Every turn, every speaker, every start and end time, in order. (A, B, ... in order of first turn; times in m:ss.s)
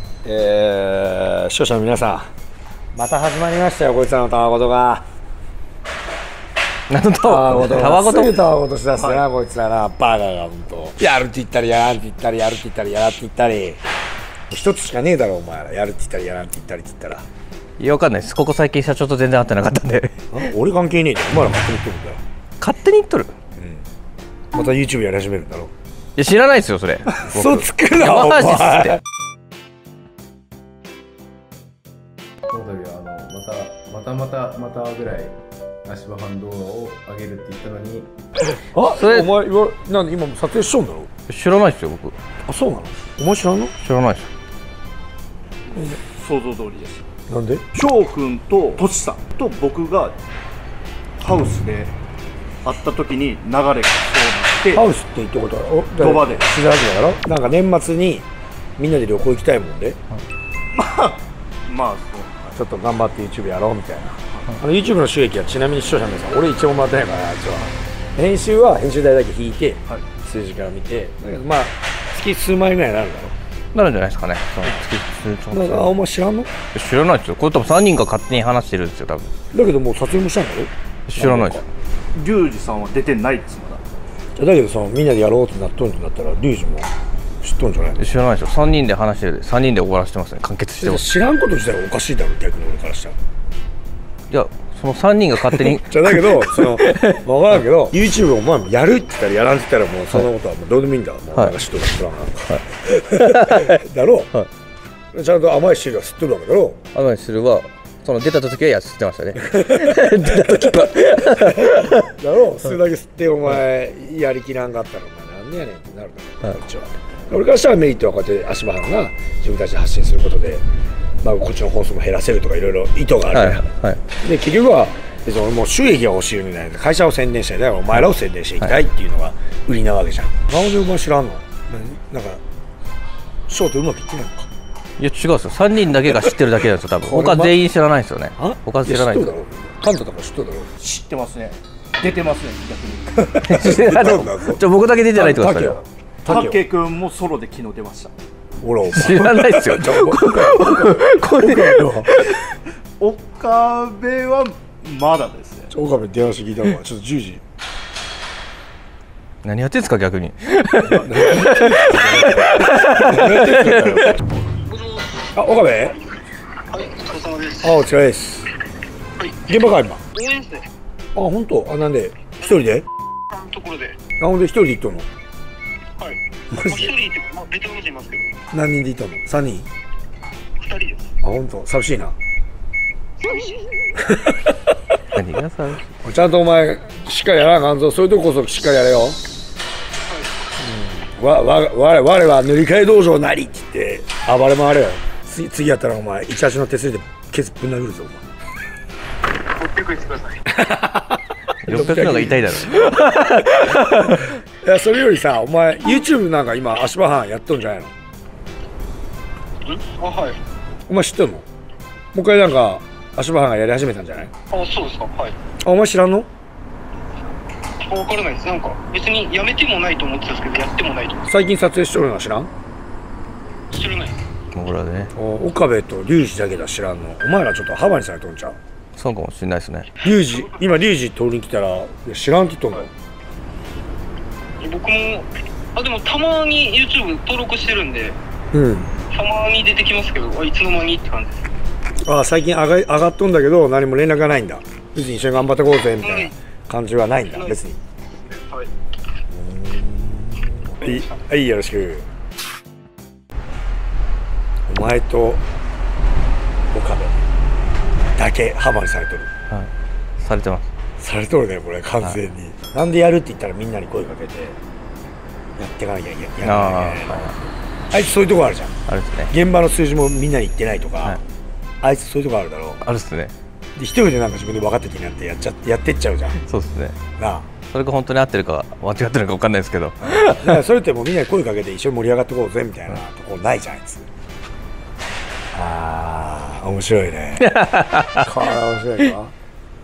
0:00.2-0:02.3 A
0:02.9-0:05.0 A
0:06.9-0:08.3 B
0:07.2-0:13.8 A
0:09.0-0:09.2 C
0:14.5-0:17.2 A
0:17.8-0:20.2 B
0:20.3-0:22.2 A
0:22.6-0:23.3 B
0:23.6-0:23.8 A
0:24.5-0:25.7 A
0:26.2-0:29.0 B
0:27.2-0:29.0 A
0:32.5-0:38.1 D
0:38.5-0:41.1 A
0:39.0-0:39.3 B
0:41.3-0:42.2 B
0:42.4-0:43.8 A
0:43.8-0:44.3 B
0:45.7-0:47.1 C
0:47.3-0:47.6 A
0:47.7-0:50.2 C
0:51.2-0:51.9 C
0:52.6-0:54.8 C
0:54.7-1:00.0 A
0:56.0-0:56.5 C
1:00.7-1:02.5 C
1:02.5-1:13.4 A
1:13.7-1:15.9 B
1:15.5-1:16.5 A
1:16.7-1:19.3 B
1:19.5-1:21.6 A
1:21.1-1:21.6 B
1:22.1-1:23.8 C
1:24.4-1:26.9 A
1:27.4-1:28.2 A
1:28.0-1:31.0 B
1:30.8-1:33.2 A
1:34.3-1:37.2 B
1:35.5-1:44.3 A
1:43.2-1:43.8 B
1:45.1-1:46.8 A
1:47.0-1:52.1 B
1:49.4-2:00.6 A
2:01.2-2:12.4 A
2:03.4-2:04.0 B
2:13.5-2:14.5 A
2:15.0-2:19.3 B
2:17.0-2:17.6 A
2:18.4-2:20.7 A
2:20.8-2:23.4 C
2:23.2-2:26.6 A
2:23.5-2:25.8 B
2:26.3-2:28.1 C
2:28.6-2:32.2 A
2:29.0-2:32.4 B
2:33.0-2:35.7 C
2:35.7-2:37.4 A
2:39.4-2:40.8 B
2:40.9-2:44.2 A
2:41.0-2:41.3 C
2:41.5-2:41.9 B
2:42.5-2:43.0 B
2:44.6-2:45.2 E
2:45.4-2:46.0 A
2:46.7-2:47.7 E
2:47.6-2:48.5 A
2:49.5-2:50.0 A
2:50.1-2:50.7 E
2:51.2-2:52.9 A
2:53.3-2:54.0 E
2:54.2-2:55.1 A
2:56.0-2:58.4 E
2:56.5-2:56.9 A
2:58.5-2:59.7 A
3:00.6-3:01.1 E
3:01.2-3:02.2 A
3:03.2-3:03.7 E
3:04.0-3:04.6 A
3:05.2-3:05.7 B
3:06.0-3:09.2 A
3:10.1-3:10.3 E
3:10.6-3:18.2 A
3:19.5-3:20.4 E
3:20.5-3:27.9 A
3:21.7-3:24.2 B
3:29.6-3:30.4 E
3:30.9-3:31.5 A
3:32.1-3:34.3 A
3:34.5-3:35.4 E
3:35.6-3:36.3 A
3:37.8-3:41.2 E
3:41.3-3:42.5 A
3:43.7-3:44.2 E
3:44.6-3:45.1 B
3:45.2-3:48.6 A
3:49.0-3:49.9 B
3:50.0-3:52.9 A
3:50.1-3:50.4 E
3:54.6-3:58.2 E
3:58.5-3:58.9 A
3:59.1-4:01.4 E
4:02.0-4:07.8 A
4:06.0-4:06.3 E
4:07.3-4:07.6 E
4:08.1-4:08.7 E
4:09.3-4:12.1 A
4:10.8-4:11.2 E
4:14.7-4:15.4 A
4:16.7-4:17.2 A
4:18.2-4:19.3 A
4:19.5-4:20.7 B
4:21.0-4:24.6 A
4:25.6-4:28.8 A
4:26.4-4:27.3 B
4:28.9-4:29.3 B
4:29.3-4:31.2 A
4:31.8-4:32.8 A
4:32.8-4:33.3 B
4:33.8-4:36.4 A
4:36.4-4:37.0 B
4:37.2-4:37.5 A
4:37.7-4:40.4 B
4:40.0-4:44.1 A
4:45.5-4:47.6 A
4:47.5-4:48.2 B
4:48.1-4:49.3 A